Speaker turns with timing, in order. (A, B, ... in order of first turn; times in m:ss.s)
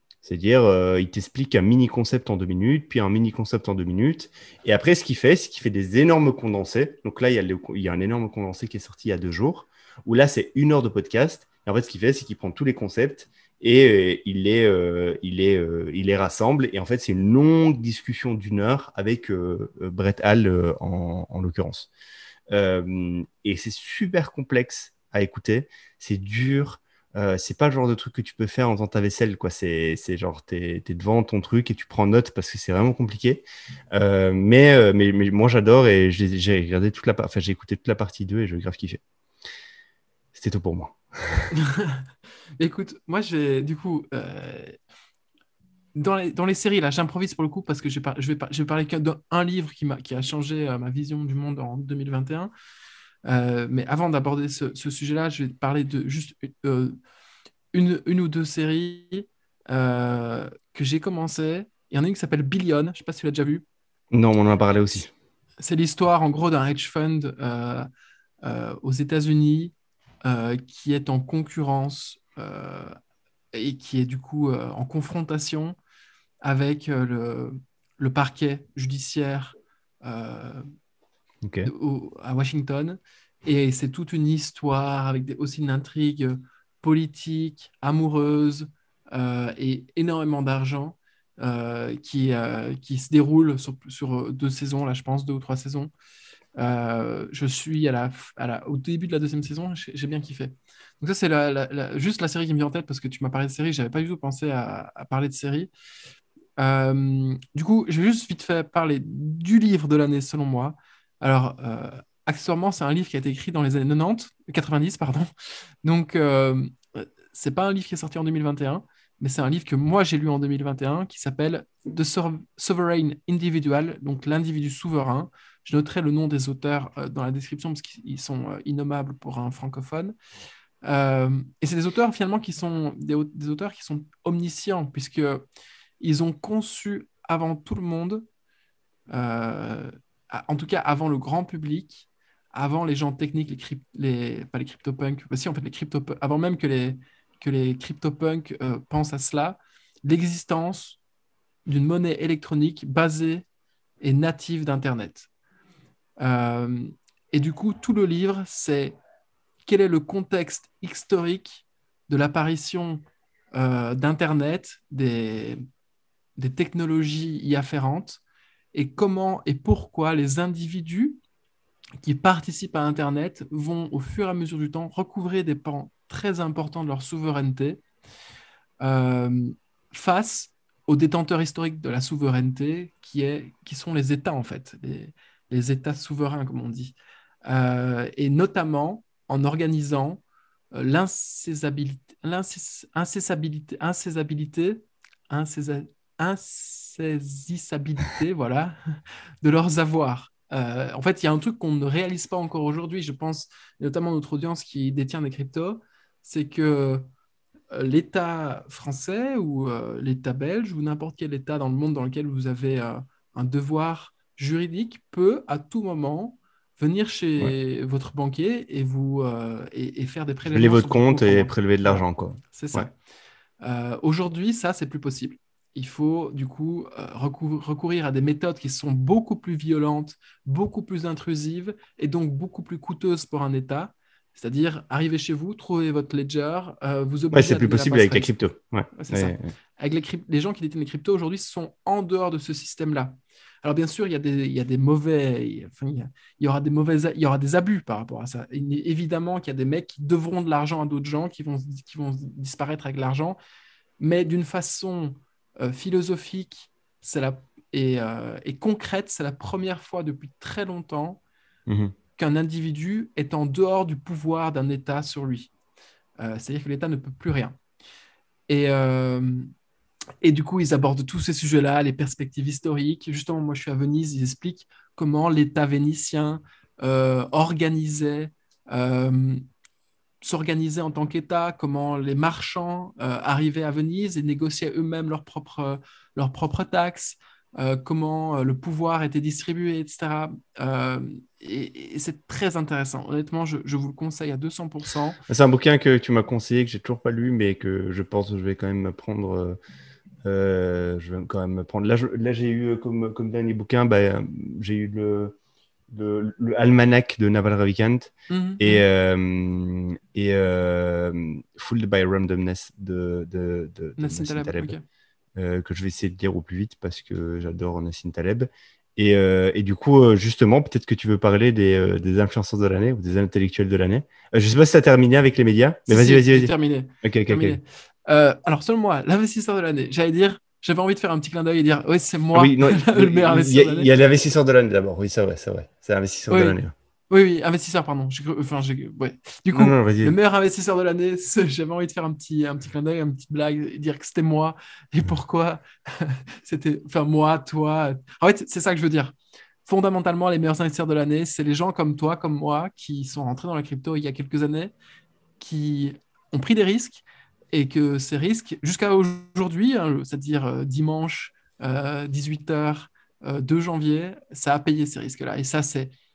0:00.2-0:21.9 A
0:22.5-0:39.0 A
0:40.3-0:41.5 A
0:41.5-0:42.0 B
0:42.6-0:44.7 B
0:46.0-0:52.5 B
0:53.3-0:57.0 B
0:57.7-1:03.6 B
1:04.1-1:05.1 A
1:05.6-1:07.9 B
1:08.4-1:13.0 B
1:13.5-1:15.8 B
1:16.4-1:20.7 B
1:21.4-1:21.7 A
1:21.6-1:35.9 B
1:36.6-1:45.7 B
1:46.6-1:55.3 B
1:55.8-2:10.1 B
2:10.8-2:15.4 B
2:16.0-2:18.3 B
2:19.1-2:31.0 B
2:31.7-2:33.4 B
2:34.0-2:35.3 B
2:36.2-2:39.0 B
2:39.6-2:45.6 B
2:46.4-2:48.2 B
2:48.7-2:51.2 B
2:52.0-2:57.8 B
2:58.8-3:10.2 B
3:10.7-3:18.8 B
3:19.4-3:27.0 B
3:27.7-3:42.9 B
3:40.5-3:42.9 A
3:43.6-3:58.4 B
3:57.3-3:59.5 A
3:59.0-4:13.4 B
4:14.0-4:21.2 B
4:21.7-4:22.0 A
4:22.2-4:25.5 B
4:26.2-4:27.6 B
4:28.5-4:29.5 B
4:30.2-4:39.4 B
4:40.2-4:55.2 B
4:55.3-4:59.6 A
5:00.2-5:05.4 A
5:05.9-5:14.7 A
5:08.3-5:08.9 B
5:14.0-5:14.8 B
5:15.4-5:26.5 A
5:25.9-5:33.9 B
5:27.0-5:27.6 A
5:32.3-5:36.7 A
5:36.3-5:36.6 B
5:37.1-5:54.7 B
5:39.5-5:40.2 A
5:55.4-6:05.9 B